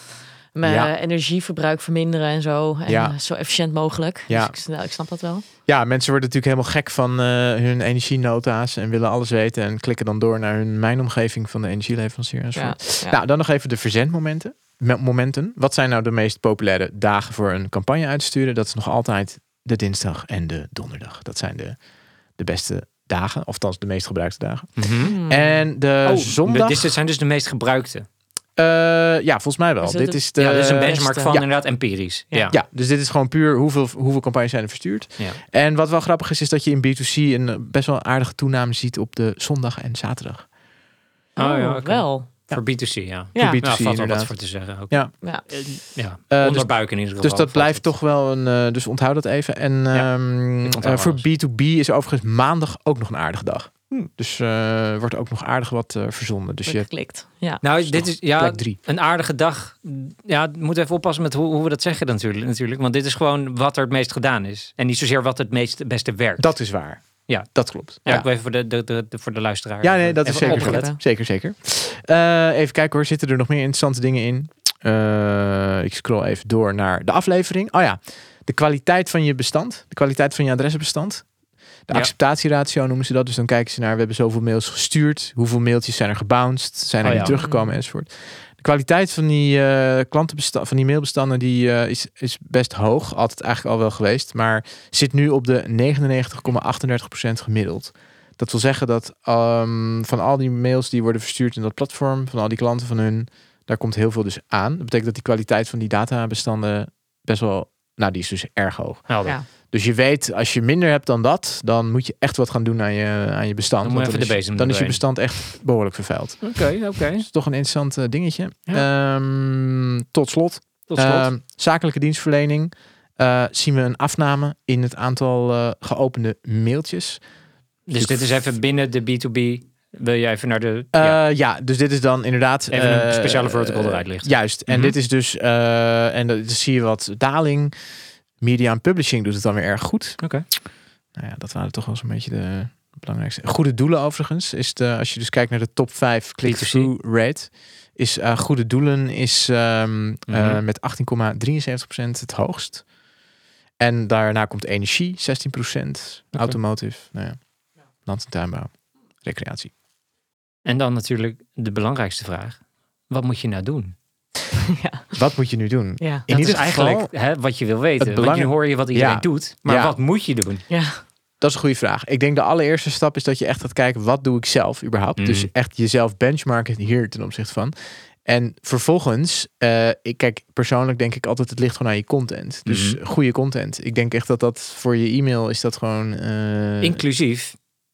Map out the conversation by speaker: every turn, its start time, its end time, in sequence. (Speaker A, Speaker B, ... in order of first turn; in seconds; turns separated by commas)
Speaker A: 0.5-5.4, Speaker B: 0.6-0.9, Speaker B: 2.9-3.1, Speaker B: 4.3-4.5, Speaker B: 5.7-21.8, Speaker A: 12.5-13.2, Speaker B: 22.4-26.9, Speaker C: 24.8-25.1, Speaker A: 25.1-25.5, Speaker C: 26.0-28.1, Speaker B: 28.6-31.4, Speaker A: 29.8-31.4, Speaker C: 30.4-32.5, Speaker B: 32.5-40.5, Speaker A: 41.4-42.3, Speaker C: 41.4-47.9, Speaker B: 43.3-44.3, Speaker A: 43.4-43.6, Speaker B: 46.3-56.9, Speaker C: 50.6-51.2, Speaker A: 56.6-57.6, Speaker C: 57.6-66.5, Speaker B: 57.8-58.8, Speaker B: 66.4-68.2, Speaker C: 67.3-70.9, Speaker B: 69.8-81.2, Speaker A: 70.3-71.0, Speaker B: 81.9-109.1, Speaker C: 87.0-87.4, Speaker A: 87.1-87.8, Speaker C: 109.1-109.4, Speaker B: 109.7-127.2, Speaker C: 113.8-115.0, Speaker C: 116.4-117.2, Speaker C: 120.9-121.3, Speaker C: 127.9-131.2, Speaker B: 128.0-128.4, Speaker B: 130.9-137.7, Speaker C: 132.7-134.9, Speaker B: 138.4-140.2, Speaker C: 140.2-140.4, Speaker B: 141.1-152.8, Speaker C: 146.4-146.9, Speaker C: 150.3-150.6, Speaker B: 153.8-157.4, Speaker B: 158.0-159.7, Speaker C: 160.6-162.6, Speaker C: 163.1-163.9, Speaker A: 164.6-165.1, Speaker B: 165.2-167.1, Speaker C: 166.3-170.6, Speaker B: 168.0-169.9, Speaker A: 170.7-171.0, Speaker B: 171.4-177.7, Speaker C: 175.2-175.5, Speaker B: 178.2-187.0, Speaker C: 182.7-183.0, Speaker C: 186.8-187.6